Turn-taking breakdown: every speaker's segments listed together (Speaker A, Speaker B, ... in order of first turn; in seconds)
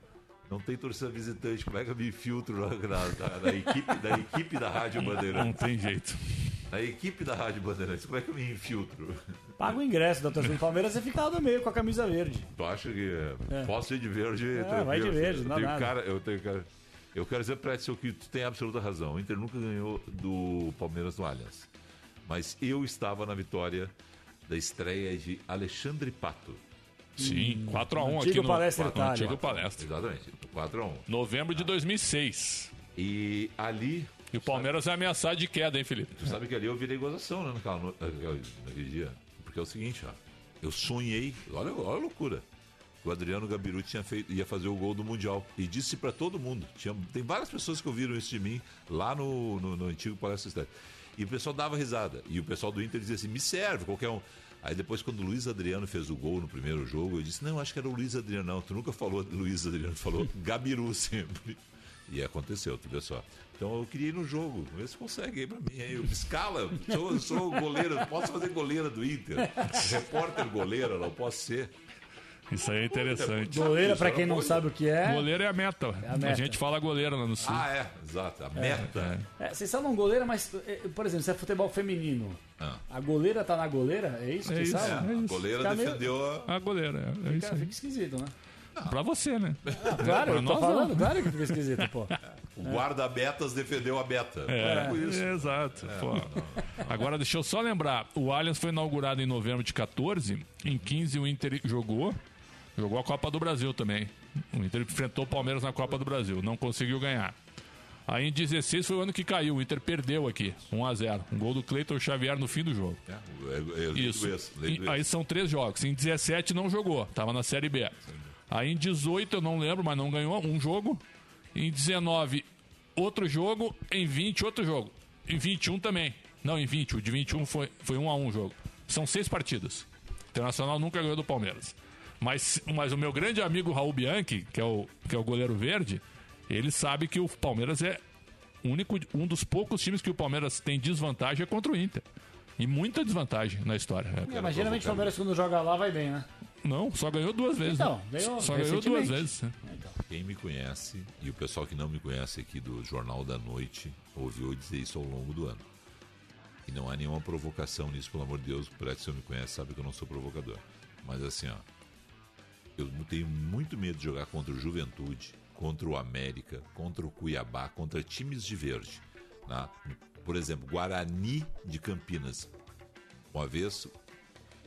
Speaker A: 0.5-5.6, 6.7-9.8, 12.5-21.7, 22.2-23.9, 24.5-26.6, 29.3-31.7, 32.9-34.7, 36.2-42.4, 43.0-71.7, 72.9-74.7, 77.4-79.2, 84.7-86.5, 89.7-90.4, 92.5-96.8, 113.1-115.1, 144.3-145.2, 150.1-155.6, 156.7-161.6, 162.8-172.5, 173.3-173.9
Speaker B: 5.0-6.6, 27.2-29.8, 31.1-32.7, 34.3-36.3, 72.5-73.6, 75.0-77.7, 78.9-79.2, 84.5-85.5, 86.4-87.7, 88.8-91.6, 94.5-102.2, 102.8-107.4, 108.1-113.0, 113.9-118.0, 118.5-121.0, 121.5-122.4, 123.0-138.0, 138.6-142.0, 142.6-144.4, 146.6-149.5
Speaker C: 9.6-12.5, 14.5-15.9, 27.2-29.5, 73.5-75.3, 76.0-76.6, 78.5-78.8, 79.4-86.0, 87.2-88.3, 89.8-92.8, 94.6-95.0, 144.3-146.3, 147.7-149.9